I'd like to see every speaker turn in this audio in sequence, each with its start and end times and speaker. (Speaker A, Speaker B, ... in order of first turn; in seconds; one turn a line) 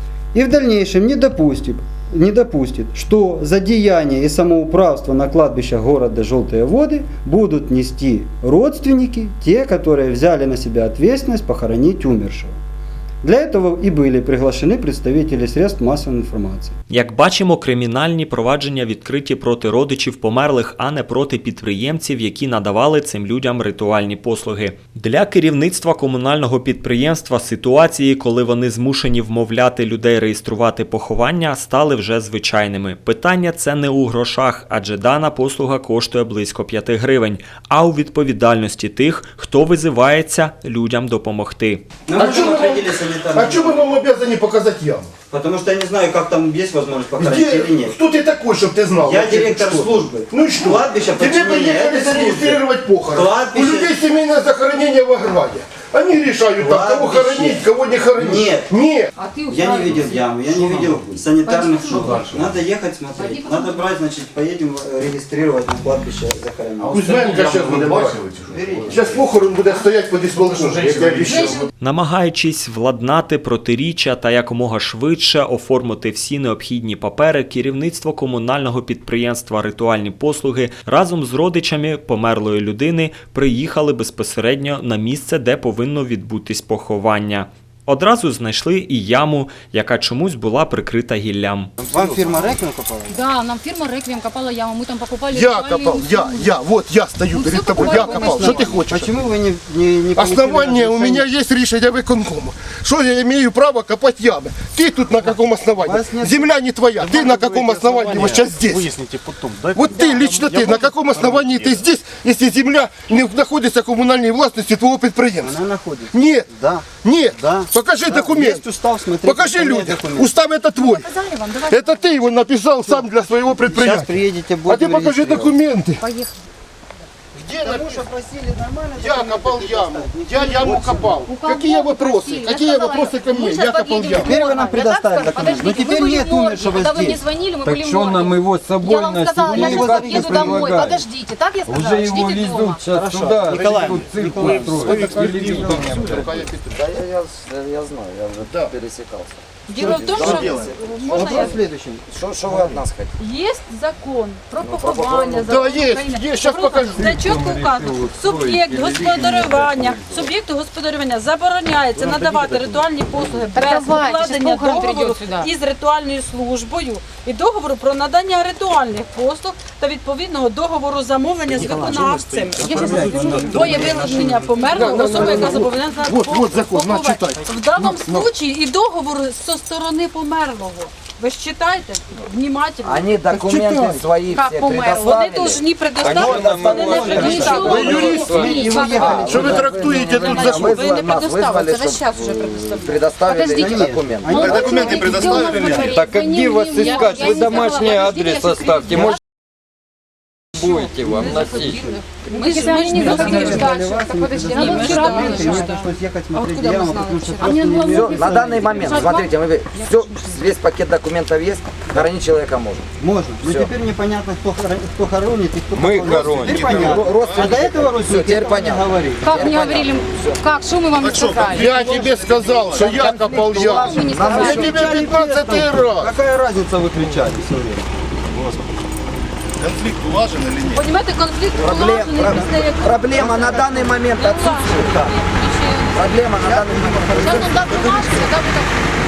Speaker A: 0.3-12.6
Speaker A: 13.2-16.7
Speaker B: 16.9-41.9
Speaker A: 42.1-44.0
Speaker C: 42.1-45.1
Speaker A: 45.3-48.0
Speaker C: 47.2-59.1
Speaker A: 49.0-54.0
Speaker A: 56.5-57.6
Speaker A: 58.2-58.7
Speaker D: 59.1-60.3
Speaker A: 59.5-67.8
Speaker D: 61.3-62.3
Speaker D: 63.1-63.8
Speaker C: 66.9-71.6
Speaker A: 68.5-69.4
Speaker D: 71.3-71.7
Speaker B: 71.8-91.7
Speaker A: 91.8-93.2
Speaker D: 92.2-96.5
Speaker C: 95.3-99.2
Speaker D: 97.3-98.8
Speaker A: 97.7-101.3
Speaker C: 100.1-109.0
Speaker A: 105.8-111.7
Speaker C: 109.7-115.5
Speaker A: 115.4-120.3
Speaker C: 116.1-116.5
Speaker C: 117.0-118.6
Speaker C: 119.2-121.1
Speaker D: 120.8-122.2
Speaker C: 121.6-126.0
Speaker A: 123.6-125.6
Speaker D: 126.0-126.4
Speaker C: 127.3-128.0
Speaker A: 127.6-131.2
Speaker C: 129.0-134.3
Speaker D: 131.2-142.8
Speaker A: 134.1-137.2
Speaker E: 137.6-141.0
Speaker A: 139.4-140.9
Speaker E: 141.7-146.5
Speaker A: 142.9-146.0
Speaker C: 144.8-146.9
Speaker F: 146.7-151.0
Speaker C: 148.4-148.7
Speaker G: 149.7-151.6
Speaker A: 149.8-152.8
Speaker C: 150.3-150.6
Speaker F: 152.1-153.1
Speaker G: 153.2-183.1
Speaker F: 154.6-155.6
Speaker C: 155.4-157.1
Speaker E: 156.9-160.3
Speaker E: 162.1-162.6
Speaker D: 163.5-165.5
Speaker C: 171.5-178.2
Speaker A: 172.6-174.1
Speaker E: 173.1-173.8
Speaker F: 182.8-185.6
Speaker C: 183.3-184.1
Speaker D: 184.2-185.4
Speaker G: 184.8-189.0
Speaker E: 186.0-188.9
Speaker F: 186.2-187.3
Speaker A: 186.8-190.6
Speaker D: 187.1-199.2
Speaker C: 187.6-188.4
Speaker F: 188.9-194.9
Speaker C: 189.2-190.8
Speaker G: 190.3-191.6
Speaker A: 193.4-196.0
Speaker C: 194.4-195.9
Speaker E: 195.7-199.2
Speaker A: 196.6-197.3
Speaker E: 200.6-201.8
Speaker G: 201.0-203.7
Speaker D: 201.4-210.6
Speaker A: 202.7-209.2
Speaker G: 204.5-205.8
Speaker F: 207.8-212.9
Speaker A: 213.0-219.6
Speaker F: 213.4-213.7
Speaker E: 215.7-217.1
Speaker F: 216.4-220.4
Speaker C: 217.2-217.5
Speaker D: 219.2-222.0
Speaker C: 221.0-226.1
Speaker F: 221.2-224.8
Speaker A: 221.5-228.6
Speaker D: 223.8-225.1
Speaker C: 229.6-230.9
Speaker D: 230.7-236.3
Speaker F: 231.6-235.2
Speaker A: 232.2-233.9
Speaker F: 235.9-238.0
Speaker A: 236.3-237.9
Speaker D: 237.2-238.8
Speaker C: 237.3-238.3